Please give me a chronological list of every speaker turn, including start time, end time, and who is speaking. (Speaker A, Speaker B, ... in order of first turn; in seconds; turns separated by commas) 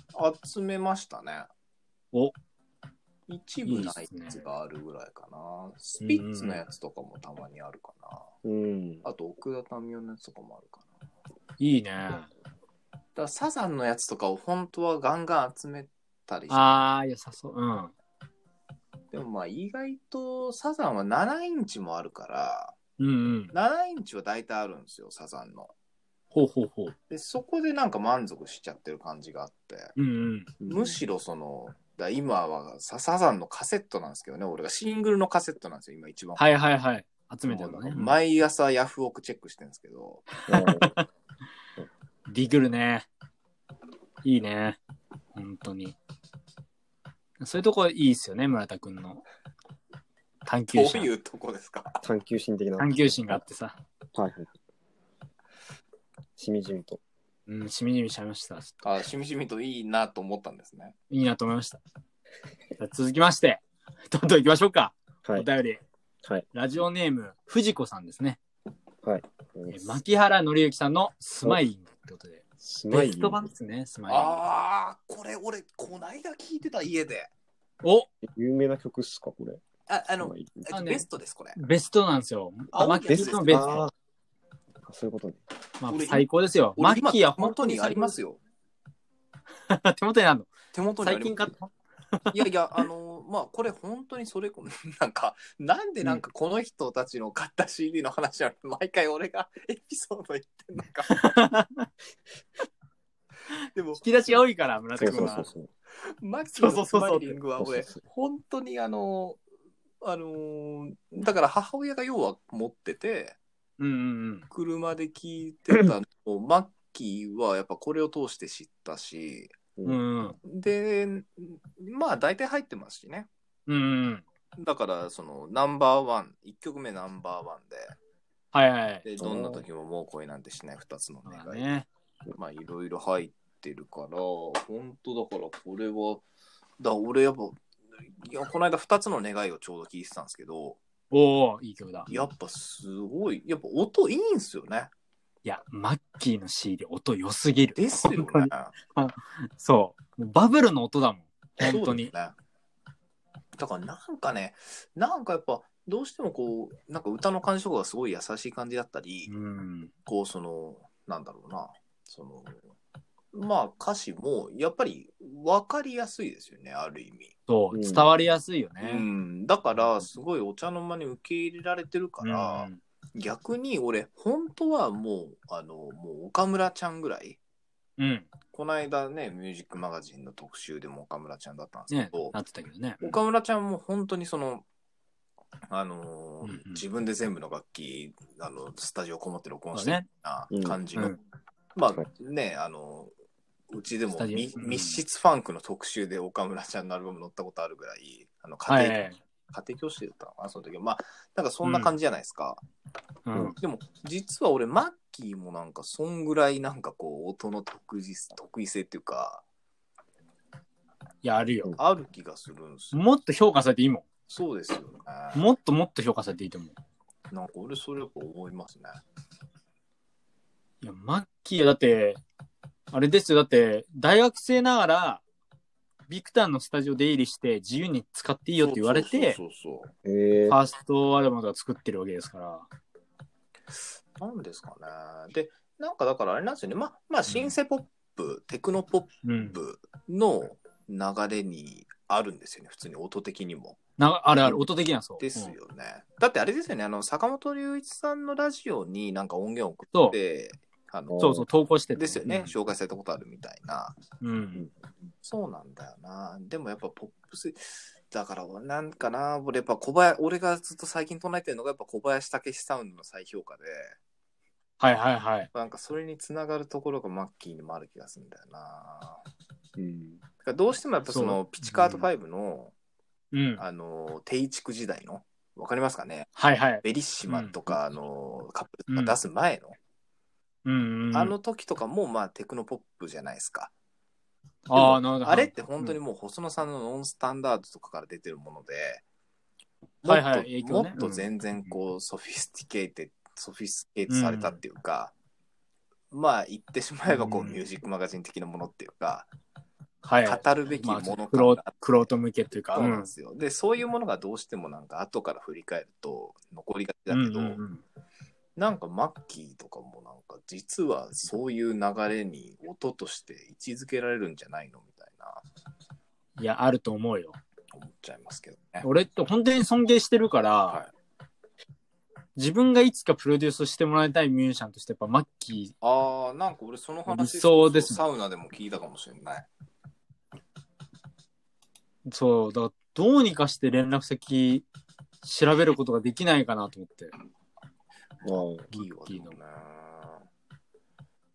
Speaker A: 0.1-1.5, Speaker A: 3.3-8.2, Speaker B: 3.6-4.4, Speaker B: 6.0-6.6, Speaker C: 8.4-9.1, Speaker A: 9.0-10.8, Speaker B: 11.6-12.3, Speaker A: 13.2-16.7, Speaker B: 16.5-17.9, Speaker A: 19.1-22.7, Speaker B: 23.0-23.5, Speaker A: 23.5-25.7, Speaker B: 26.3-26.9, Speaker A: 27.1-29.9, Speaker B: 29.9-30.5, Speaker C: 30.6-31.0, Speaker A: 30.6-36.4, Speaker B: 36.4-38.2, Speaker A: 37.5-40.3, Speaker C: 40.5-40.9, Speaker B: 40.5-41.0, Speaker B: 42.3-43.1, Speaker B: 44.2-44.8, Speaker B: 45.3-46.0, Speaker B: 47.4-49.2, Speaker B: 50.5-51.1, Speaker A: 50.7-52.0, Speaker C: 52.0-53.4, Speaker B: 52.8-53.8, Speaker C: 54.1-54.5, Speaker C: 56.4-57.0, Speaker B: 57.5-58.8, Speaker A: 58.8-60.9, Speaker B: 61.1-61.8, Speaker B: 62.8-65.8, Speaker B: 66.5-68.4, Speaker C: 69.0-70.0, Speaker B: 69.7-74.4, Speaker C: 72.6-73.4, Speaker A: 74.1-77.3, Speaker B: 77.8-78.1, Speaker C: 78.2-79.6, Speaker A: 79.9-81.6, Speaker C: 80.2-80.7, Speaker B: 80.7-81.0, Speaker B: 81.5-83.8, Speaker A: 82.7-83.8, Speaker C: 82.8-83.9, Speaker C: 84.8-85.4, Speaker B: 85.8-88.2, Speaker A: 85.9-86.2, Speaker A: 86.8-88.4, Speaker B: 89.7-90.5, Speaker A: 90.7-91.5, Speaker B: 91.0-92.3, Speaker A: 92.3-101.3, Speaker B: 101.1-101.9, Speaker A: 103.7-104.4, Speaker B: 104.0-105.5, Speaker A: 105.0-105.4, Speaker C: 105.0-105.7, Speaker A: 106.2-109.4, Speaker B: 106.6-107.4, Speaker C: 107.6-108.0, Speaker A: 110.0-113.4, Speaker B: 113.8-114.5, Speaker A: 114.5-119.5, Speaker B: 119.8-120.4, Speaker A: 120.5-123.3, Speaker B: 123.7-124.2, Speaker A: 124.6-127.9, Speaker B: 128.5-129.0, Speaker A: 129.0-131.7, Speaker C: 129.2-129.6, Speaker B: 131.3-131.9, Speaker A: 132.3-136.2, Speaker A: 136.8-137.6, Speaker A: 138.2-140.8, Speaker B: 141.1-142.1, Speaker A: 142.1-144.9, Speaker B: 145.4-152.1, Speaker A: 147.7-148.7, Speaker A: 151.6-152.3, Speaker A: 153.6-159.3, Speaker B: 159.3-159.9, Speaker A: 160.1-162.6, Speaker A: 163.3-167.3, Speaker B: 167.5-169.1, Speaker C: 167.7-168.1, Speaker A: 168.8-177.4, Speaker B: 172.2-172.8, Speaker B: 178.0-178.3, Speaker A: 178.5-182.3, Speaker B: 181.9-183.2, Speaker A: 183.0-184.6, Speaker A: 185.7-191.2, Speaker B: 186.4-186.8, Speaker B: 189.7-190.1, Speaker C: 190.5-190.8, Speaker A: 191.7-193.1, Speaker A: 193.7-199.0, Speaker B: 194.1-195.0, Speaker B: 198.7-199.2, Speaker A: 199.5-202.6, Speaker B: 201.6-201.9, Speaker B: 203.2-203.6, Speaker A: 203.6-209.4, Speaker B: 211.2-211.7, Speaker A: 211.8-213.0, Speaker B: 212.9-214.0, Speaker A: 214.3-215.5, Speaker B: 215.3-216.7, Speaker A: 217.3-219.0, Speaker B: 220.8-222.2, Speaker B: 222.9-225.2, Speaker B: 226.1-229.4, Speaker A: 228.6-229.9, Speaker C: 230.0-230.6, Speaker B: 230.5-232.7, Speaker A: 234.2-243.8, Speaker B: 239.2-239.6, Speaker B: 244.0-245.5, Speaker A: 245.2-251.3, Speaker C: 251.1-251.5, Speaker B: 251.2-252.5, Speaker A: 251.9-254.0, Speaker B: 254.2-254.7, Speaker A: 255.2-263.9, Speaker B: 264.8-265.5, Speaker A: 265.5-269.2, Speaker C: 269.8-270.2, Speaker A: 270.4-272.7, Speaker B: 271.0-272.1, Speaker B: 273.3-273.6, Speaker A: 273.6-276.3, Speaker B: 276.4-277.6, Speaker A: 276.8-279.8, Speaker B: 278.9-279.2, Speaker B: 280.6-281.3, Speaker A: 281.1-283.7, Speaker B: 284.6-286.0, Speaker A: 284.7-289.0, Speaker A: 290.0-295.1, Speaker B: 290.1-291.8, Speaker B: 294.1-294.6, Speaker A: 296.1-299.3, Speaker B: 297.1-297.6, Speaker B: 300.0-303.1, Speaker A: 300.2-302.1, Speaker A: 302.7-307.6, Speaker B: 307.1-307.8, Speaker A: 308.6-315.4, Speaker B: 316.4-317.4, Speaker A: 317.7-318.9, Speaker B: 318.8-320.8, Speaker B: 322.4-325.7, Speaker A: 325.8-329.5, Speaker B: 327.1-328.1, Speaker B: 332.1-334.6, Speaker B: 335.2-337.1, Speaker C: 338.2-338.7, Speaker A: 338.2-340.2, Speaker B: 338.7-339.4